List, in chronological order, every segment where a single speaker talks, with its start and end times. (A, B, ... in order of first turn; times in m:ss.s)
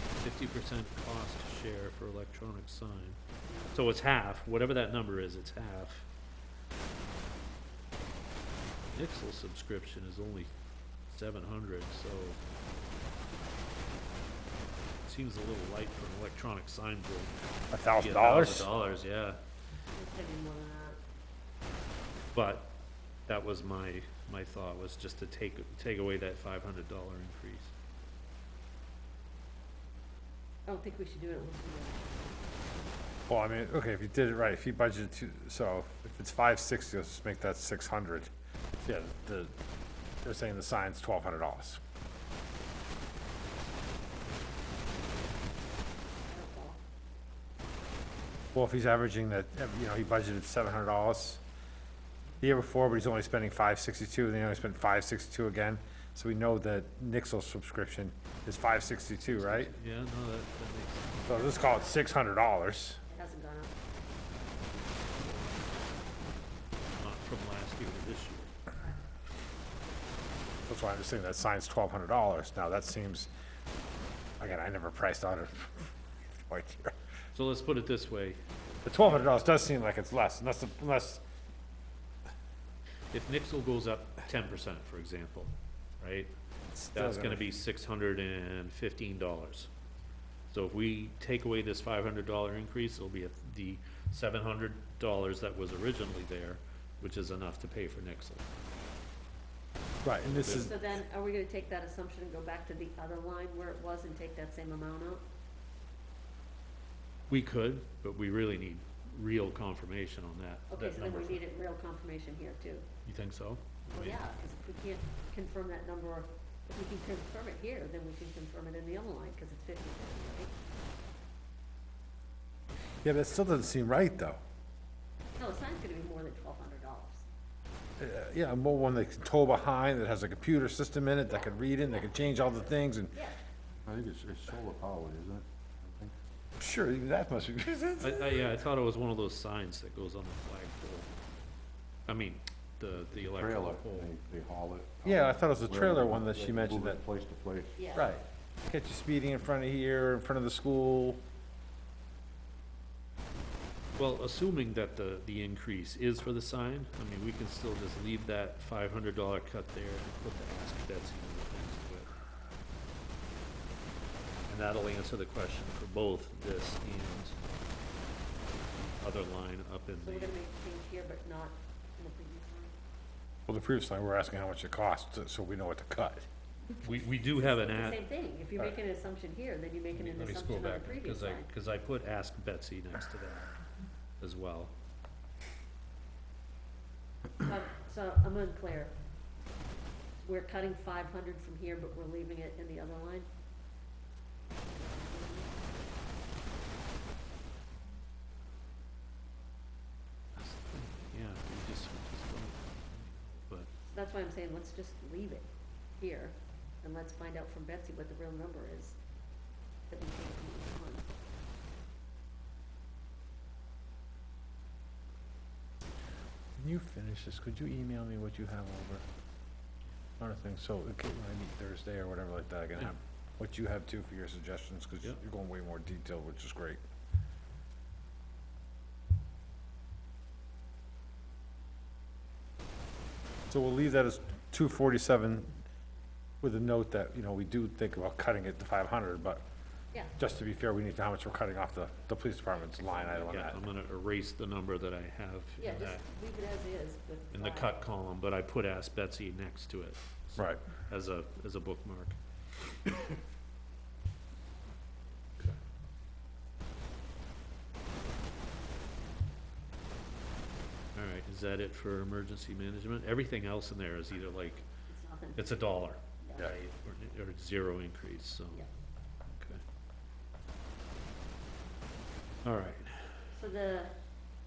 0:00.2-0:03.2 A
0:03.5-0:03.8 B
0:03.7-0:06.1 A
0:08.9-0:10.5 A
0:11.1-0:12.4 A
0:15.0-0:17.4 A
0:17.7-0:18.7 C
0:17.9-0:19.4 A
0:19.9-0:21.0 B
0:22.3-0:22.8 A
0:23.3-0:27.7 A
0:30.7-0:32.7 B
0:33.3-0:39.5 C
0:40.2-0:41.8 C
0:46.3-0:46.8 B
0:48.5-0:51.4 C
0:52.4-0:59.7 C
0:59.3-1:01.4 A
1:01.2-1:03.0 C
1:01.3-1:02.0 B
1:03.1-1:03.8 B
1:05.1-1:05.6 A
1:07.0-1:08.6 A
1:10.6-1:13.3 C
1:14.4-1:16.9 C
1:17.3-1:18.4 A
1:18.8-1:21.2 C
1:19.0-1:19.4 A
1:23.1-1:26.3 A
1:26.7-1:27.5 C
1:26.9-1:29.7 A
1:30.5-1:38.5 A
1:40.0-1:40.7 C
1:40.2-1:40.8 A
1:40.5-1:45.2 B
1:47.3-1:51.4 A
1:50.7-1:52.8 B
1:53.0-1:54.2 A
1:53.9-2:00.5 B
2:03.0-2:04.4 C
2:05.4-2:07.2 B
2:08.0-2:13.2 C
2:11.3-2:13.4 B
2:13.8-2:16.1 D
2:16.6-2:18.4 C
2:18.0-2:21.1 A
2:22.1-2:24.1 A
2:23.2-2:28.0 D
2:25.0-2:27.0 C
2:27.8-2:28.1 B
2:27.9-2:31.2 C
2:33.9-2:42.1 A
2:44.5-2:47.4 A
2:48.7-2:50.4 A
2:50.0-2:52.8 B
2:53.5-2:56.3 C
2:56.8-2:58.0 A
2:57.4-3:01.5 B
2:59.9-3:03.5 A
3:04.2-3:04.7 A
3:07.4-3:08.9 B
3:10.2-3:13.3 B
3:14.7-3:15.7 B
3:20.4-3:23.7 A
3:23.8-3:25.5 B
3:26.0-3:29.0 B
3:29.9-3:31.0 B
3:36.6-3:39.0 C
3:40.2-3:46.8 C
3:53.5-3:55.6 C
3:56.4-3:59.4 C
4:00.2-4:03.6 C
4:03.2-4:06.0 A
4:05.6-4:07.7 B
4:07.3-4:12.2 A
4:10.4-4:10.6 C
4:12.7-4:13.0 A
4:20.9-4:24.6 A
4:24.9-4:25.5 B
4:25.4-4:28.6 A
4:29.3-4:29.6 A
4:32.4-4:33.2 A
4:33.3-4:33.9 B